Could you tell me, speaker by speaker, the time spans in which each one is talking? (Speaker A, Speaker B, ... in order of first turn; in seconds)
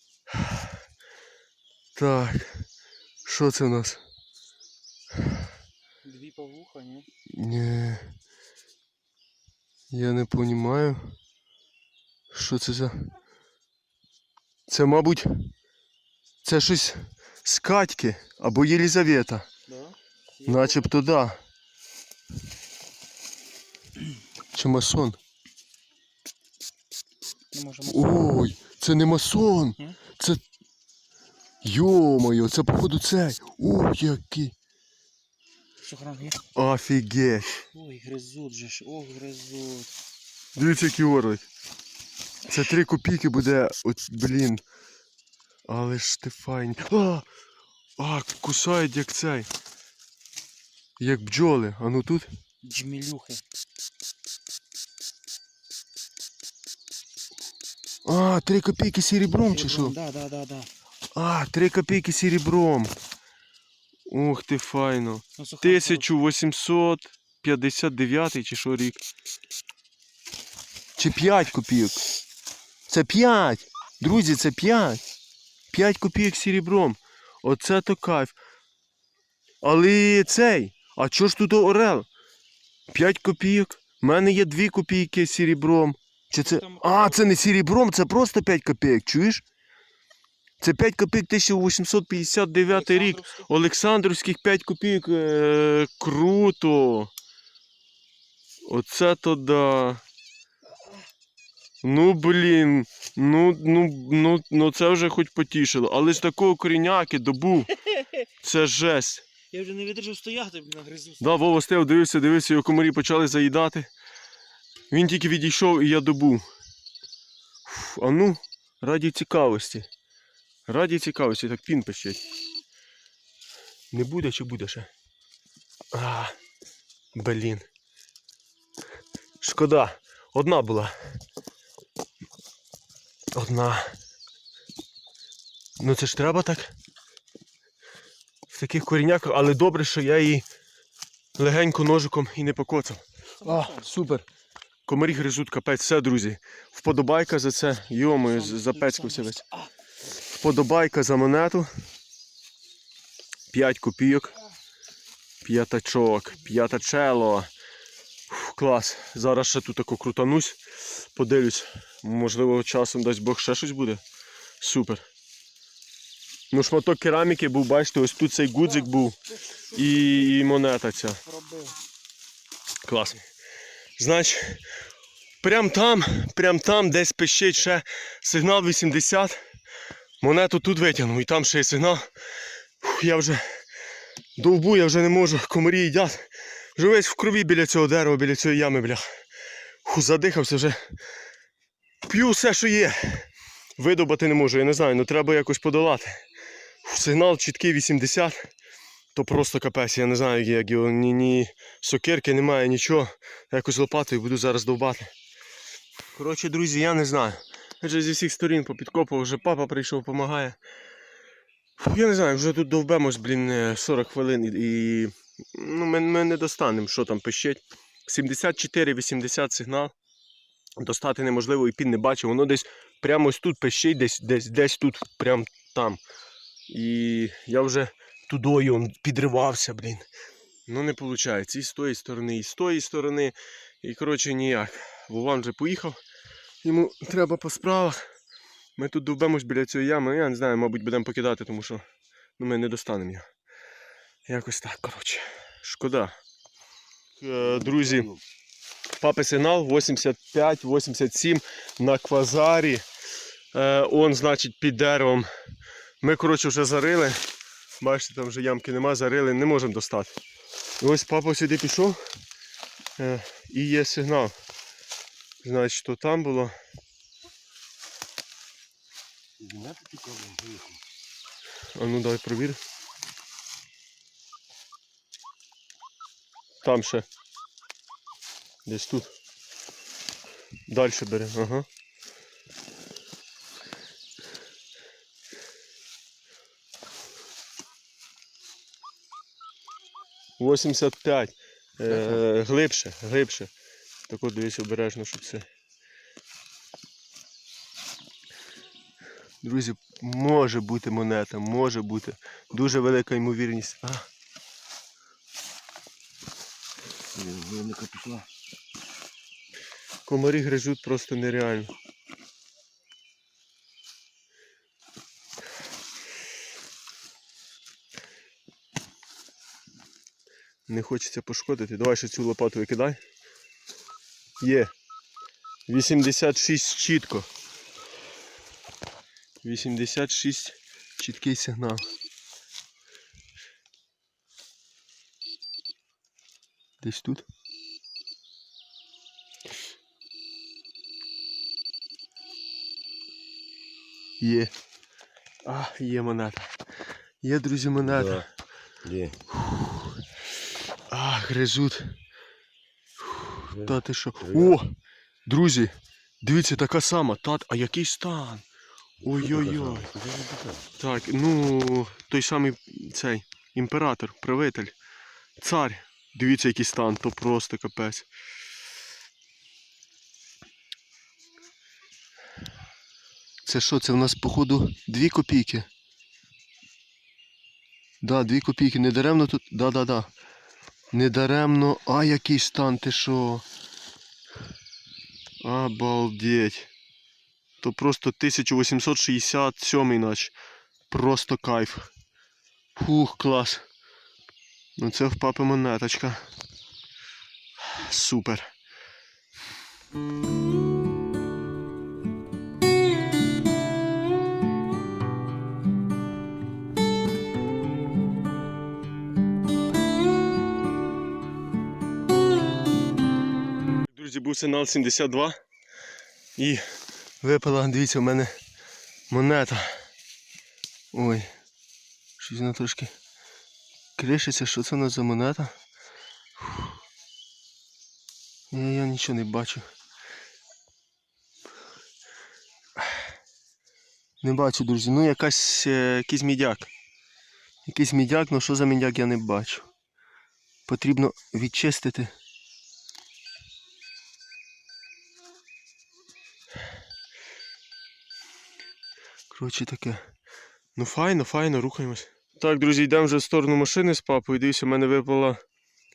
Speaker A: 1.9-2.6, 3.2-4.0, 7.3-8.1, 9.9-11.2, 12.3-13.1, 14.7-15.3, 16.4-19.5, 20.5-21.4, 24.5-25.2, 27.9-30.4, 31.6-34.5, 36.5-37.6, 40.5-41.5, 42.5-44.6, 45.7-47.3, 48.0-49.5, 51.0-52.3, 58.0-60.0, 61.1-62.9, 64.1-69.0, 71.0-72.0, 72.9-75.0, 75.7-78.3, 79.6-82.1, 82.9-89.4, 90.6-97.1, 98.7-100.0, 101.8-107.8, 108.4-109.2, 111.2-113.9, 114.9-116.4, 117.7-119.9, 120.7-122.3, 123.9-124.9, 125.9-126.3, 127.2-127.6, 129.4-130.9, 133.3-133.9, 135.8-136.7, 138.5-140.5, 141.4-144.2, 144.9-149.4, 150.3-151.7, 153.5-154.4, 155.4-157.5, 158.3-164.0, 164.6-165.0, 166.5-169.2, 169.7-171.2, 172.8-173.2, 174.0-174.6, 175.4-179.4, 180.2-182.1, 182.8-183.6, 184.4-189.1, 189.8-190.8, 192.0-196.1, 196.8-198.5, 199.1-205.1, 206.1-210.6, 211.8-219.9, 220.8-226.0, 226.7-230.1, 230.7-236.0, 236.6-238.0, 238.8-241.8, 242.4-243.2, 244.3-246.1, 247.2-248.1, 249.0-252.8, 253.5-255.3, 256.0-257.2, 257.8-260.1, 260.8-262.0, 263.0-264.3, 265.4-266.5, 271.7-272.6, 276.6-277.1, 278.7-279.1, 280.7-281.7, 290.4-293.5, 294.1-295.5, 299.4-304.1, 310.1-311.7, 320.7-323.0, 324.4-324.7, 325.7-327.3, 329.4-331.8, 336.8-337.3, 344.2-344.5, 345.4-346.5, 347.2-348.3, 349.4-349.9, 350.9-351.9, 353.1-354.7, 355.2-358.4, 359.0-360.0, 360.8-364.7, 365.4-368.1, 373.4-375.7, 378.0-380.1, 380.9-383.4, 385.4-386.7, 387.6-390.3, 390.9-391.9, 392.8-393.6, 394.8-396.2, 397.6-398.5, 413.9-415.4, 416.4-416.6, 417.2-418.3, 419.1-419.7, 420.9-421.3, 422.2-422.9, 424.0-425.6, 426.4-426.7, 428.5-429.6, 434.2-436.7, 437.7-439.7, 440.7-442.1, 449.3-450.0, 450.8-455.4
Speaker B: 6.0-7.1, 19.7-20.9, 27.5-28.3, 35.8-36.4, 37.7-39.9, 52.6-53.4, 59.4-60.7, 65.4-66.0, 86.4-87.4, 92.7-93.5, 109.5-111.2, 143.4-143.9, 148.3-149.7, 169.4-170.3, 171.2-171.8
Speaker C: 247.6-248.1, 269.4-270.8, 307.1-308.3, 347.9-348.3, 348.9-349.2, 354.3-354.6, 359.2-360.6